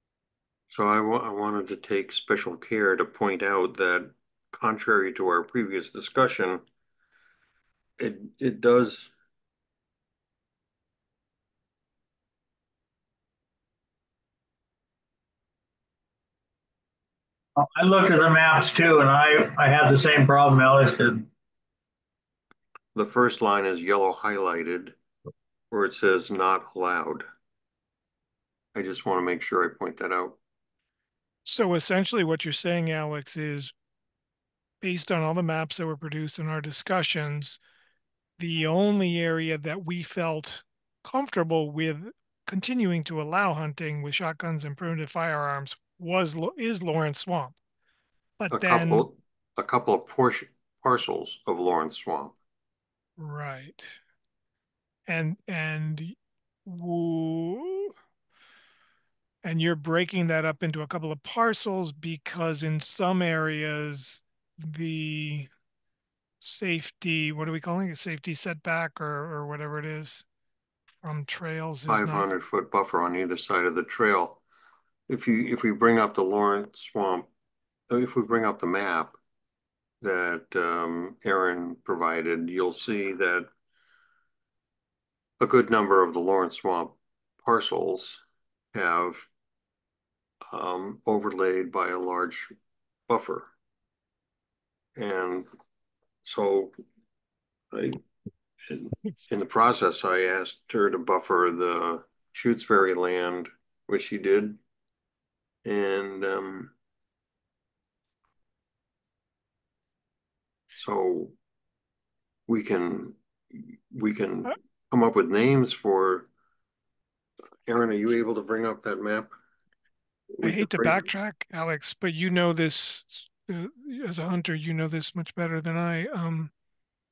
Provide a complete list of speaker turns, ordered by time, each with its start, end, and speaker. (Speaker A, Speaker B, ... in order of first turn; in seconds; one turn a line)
Speaker A: 0.7-6.6
Speaker A: 8.0-9.1
Speaker B: 17.6-21.3
Speaker A: 22.9-24.9
Speaker A: 25.7-27.2
Speaker A: 28.7-30.4
Speaker C: 31.4-33.7
Speaker C: 34.8-37.6
Speaker C: 38.4-47.6
Speaker C: 48.4-49.1
Speaker A: 48.5-52.3
Speaker C: 53.2-54.0
Speaker C: 55.1-57.9
Speaker C: 59.4-65.5
Speaker C: 66.4-70.2
Speaker C: 71.0-72.2
Speaker A: 71.9-74.4
Speaker A: 75.1-77.3
Speaker A: 77.9-79.2
Speaker A: 80.0-83.5
Speaker A: 85.4-88.2
Speaker A: 88.7-89.3
Speaker A: 90.5-92.5
Speaker A: 93.1-93.5
Speaker A: 95.0-95.5
Speaker A: 96.2-96.7
Speaker A: 97.7-98.0
Speaker A: 98.7-104.6
Speaker A: 105.6-106.7
Speaker A: 110.8-111.3
Speaker A: 112.5-116.3
Speaker A: 117.7-119.3
Speaker A: 120.4-121.0
Speaker C: 120.4-126.5